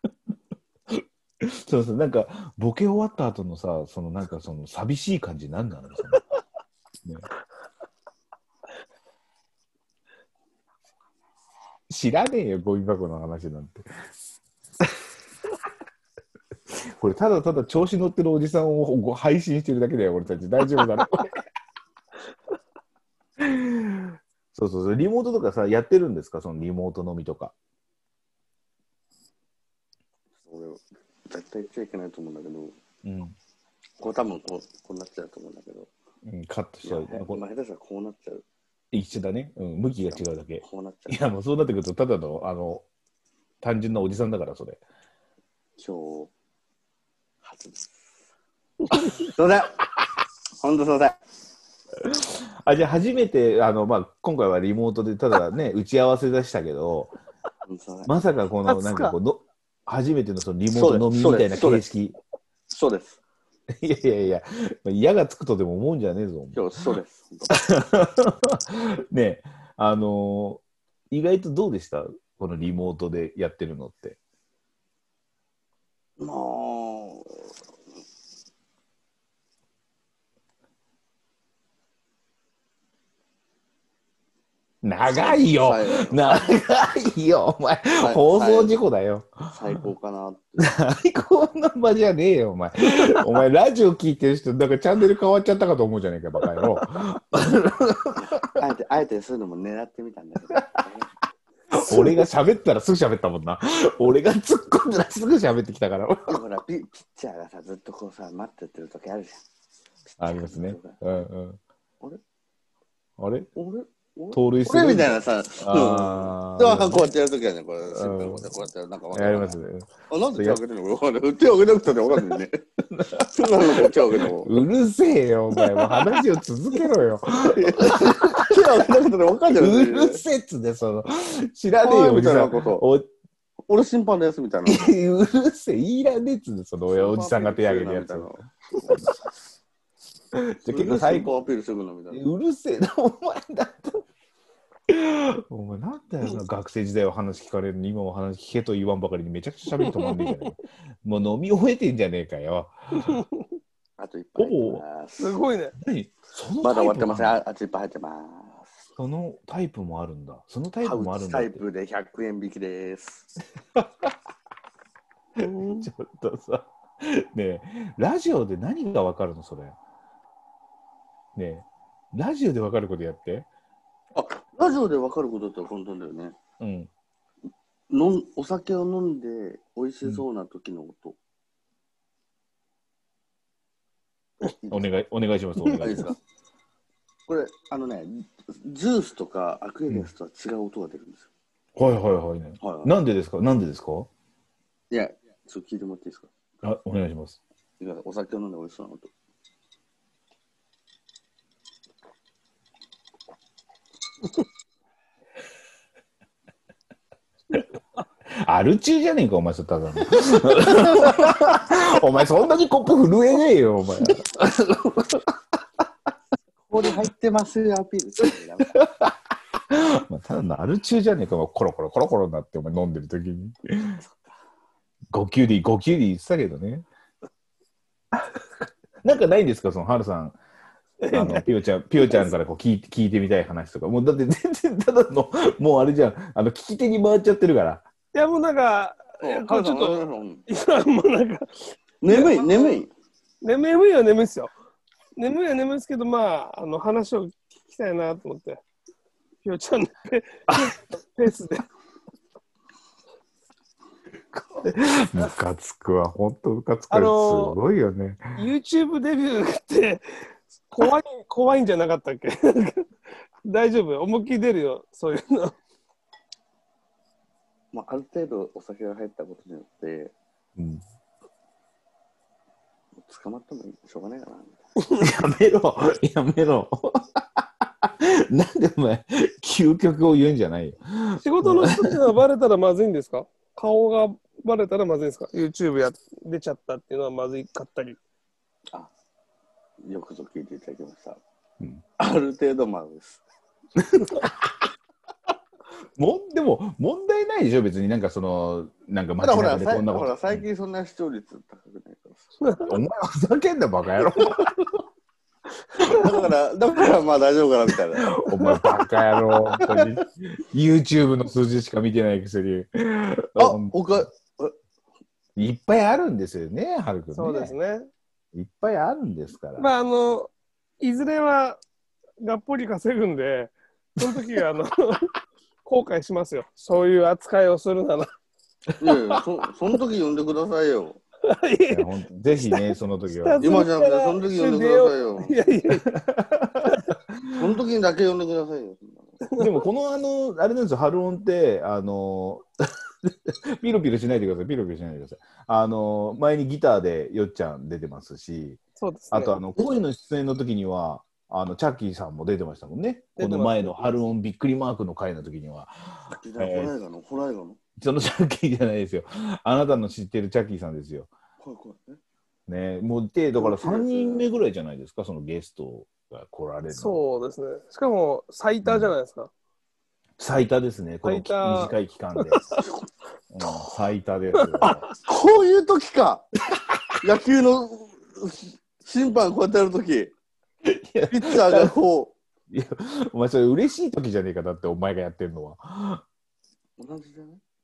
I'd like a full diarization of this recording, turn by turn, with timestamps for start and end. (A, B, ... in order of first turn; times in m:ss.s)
0:00.9-0:06.2 A
0:11.9-0:13.9 A
0:17.0-0:21.4 A
0:23.4-0:27.5 A
0:30.4-0:32.8 B
0:33.0-0:33.3 A
0:34.0-0:35.9 B
0:36.2-0:37.4 A
0:36.8-0:38.4 B
0:38.9-0:42.8 A
0:40.1-0:41.2 B
0:43.6-0:44.8 A
0:45.8-0:46.3 B
0:47.4-0:48.1 B
0:48.9-0:49.8 B
0:50.6-0:51.2 B
0:52.0-0:57.2 A
0:57.7-0:58.1 B
0:58.0-1:02.1 A
0:58.6-0:59.2 C
1:00.7-1:01.8 B
1:02.7-1:03.2 B
1:03.7-1:06.7 A
1:06.5-1:07.5 B
1:07.5-1:14.2 A
1:16.2-1:17.5 B
1:24.8-1:29.5 A
1:25.0-1:26.5 B
1:28.0-1:28.8 B
1:29.5-1:30.6 B
1:30.6-1:38.5 A
1:32.9-1:33.2 C
1:36.5-1:36.8 C
1:38.5-1:41.1 B
1:41.7-1:46.4 A
1:46.3-1:49.4 B
1:50.1-1:51.0 B
1:50.2-1:51.6 A
1:53.2-1:53.5 A
1:53.5-1:59.6 B
1:54.3-1:57.1 A
1:57.9-1:58.4 A
1:59.1-2:00.6 A
2:00.1-2:02.6 B
2:02.9-2:08.6 A
2:03.3-2:04.6 B
2:05.6-2:06.0 C
2:07.4-2:10.2 B
2:09.5-2:13.1 A
2:11.8-2:12.8 B
2:13.7-2:14.9 B
2:14.7-2:19.1 A
2:16.9-2:19.0 B
2:20.3-2:21.3 A
2:20.7-2:22.2 B
2:22.1-2:24.0 A
2:24.9-2:33.2 A
2:29.8-2:30.4 C
2:33.0-2:33.4 C
2:34.0-2:35.4 B
2:34.4-2:34.8 A
2:35.2-2:35.8 C
2:35.8-2:37.4 A
2:36.6-2:38.7 B
2:39.0-2:41.6 A
2:40.8-2:43.3 B
2:43.8-2:44.1 A
2:45.4-2:49.8 A
2:51.4-2:53.5 A
2:54.1-2:56.4 B
2:56.6-2:56.9 A
2:57.9-3:01.2 B
3:04.6-3:04.9 B
3:04.7-3:06.1 A
3:05.7-3:06.2 B
3:07.3-3:11.3 B
3:11.7-3:14.1 A
3:12.6-3:12.9 B
3:14.9-3:16.3 B
3:16.6-3:17.4 A
3:17.8-3:19.1 B
3:28.4-3:35.3 A
3:36.6-3:38.8 B
3:38.7-3:39.1 A
3:39.7-3:43.9 A
3:44.0-3:44.3 B
3:45.1-3:46.8 A
3:48.1-3:48.4 A
3:49.0-3:50.4 A
3:51.0-3:52.3 C
3:51.1-3:57.8 A
3:58.1-4:02.8 C
3:59.2-4:00.4 B
4:02.0-4:02.9 B
4:03.4-4:04.5 C
4:05.2-4:08.6 C
4:09.4-4:11.6 C
4:10.5-4:10.7 A
4:11.3-4:11.5 A
4:14.3-4:18.4 A
4:16.9-4:17.6 C
4:18.4-4:20.0 C
4:20.7-4:22.9 C
4:23.4-4:25.6 C
4:27.7-4:30.1 B
4:30.6-4:30.8 A
4:33.0-4:34.6 B
4:35.0-4:42.1 A
4:41.2-4:48.0 C
4:49.8-4:51.2 B
4:52.0-4:53.2 B
4:53.8-4:54.5 A
4:56.0-5:00.4 A
4:59.2-5:02.2 B
5:02.4-5:02.7 C
5:02.6-5:04.6 A
5:05.8-5:06.1 A
5:05.9-5:08.1 B
5:08.2-5:14.0 A
5:08.2-5:08.6 C
5:13.4-5:14.6 B
5:15.4-5:17.5 A
5:17.1-5:17.9 C
5:18.3-5:19.7 A
5:19.6-5:21.6 C
5:22.2-5:25.1 C
5:24.0-5:24.3 A
5:25.6-5:28.1 C
5:28.8-5:31.0 B
5:31.2-5:35.9 C
5:31.7-5:33.5 A
5:33.4-5:35.4 B
5:35.9-5:37.3 A
5:36.6-5:36.9 C
5:37.3-5:39.2 B
5:39.2-5:39.5 C
5:39.4-5:42.4 A
5:43.0-5:48.6 A
5:48.8-5:49.3 C
5:49.1-5:56.7 A
5:53.2-5:53.8 C
5:56.1-5:57.6 B
5:57.8-6:01.1 A
6:01.4-6:02.0 B
6:02.5-6:07.0 A
6:03.4-6:04.3 B
6:06.7-6:09.3 C
6:08.6-6:09.0 A
6:10.2-6:12.4 A
6:11.0-6:12.6 C
6:13.3-6:14.8 A
6:14.4-6:14.8 C
6:15.0-6:16.3 B
6:17.0-6:20.1 B
6:20.6-6:21.7 A
6:21.1-6:22.2 B
6:22.5-6:26.0 A
6:26.8-6:27.4 B